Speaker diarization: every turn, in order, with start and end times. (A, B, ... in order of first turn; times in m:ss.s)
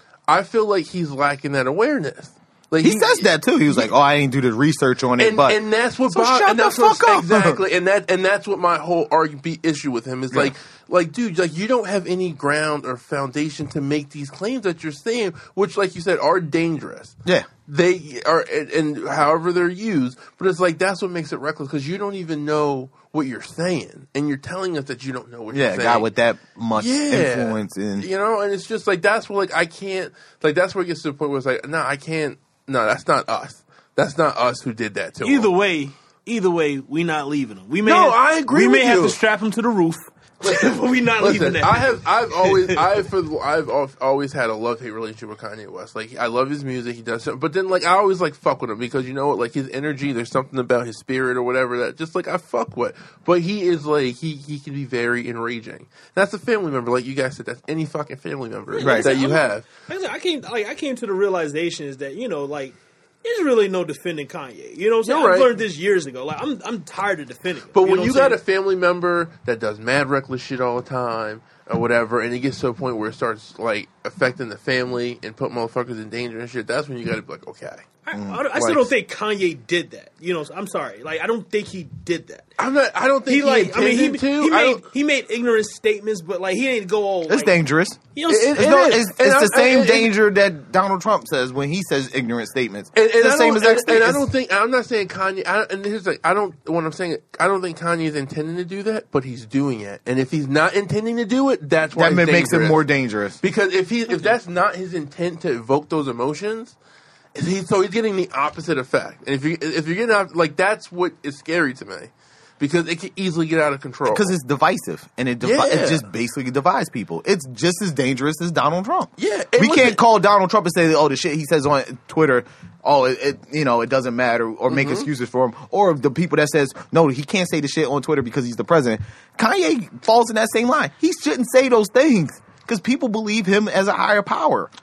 0:00.3-0:03.9 A
0:02.8-0:07.6 B
0:05.2-0:17.2 A
0:17.7-0:26.1 A
0:25.5-0:28.1 B
0:26.8-0:35.5 A
0:35.2-0:42.8 C
0:37.8-0:39.2 A
0:40.4-0:59.7 A
0:58.7-1:08.4 C
0:58.8-0:59.2 B
1:05.1-1:05.6 A
1:07.8-1:17.9 A
1:18.1-1:22.5 C
1:18.1-1:18.5 B
1:18.6-1:18.9 A
1:22.6-1:24.8 A
1:23.3-1:27.6 C
1:27.3-1:34.3 B
1:28.2-1:28.7 C
1:28.3-1:30.1 A
1:33.0-1:42.8 A
1:42.0-1:43.4 B
1:43.4-1:46.8 A
1:47.4-1:54.3 A
1:54.0-2:14.7 B
1:55.4-1:56.1 A
1:59.2-2:00.0 A
2:04.7-2:05.1 A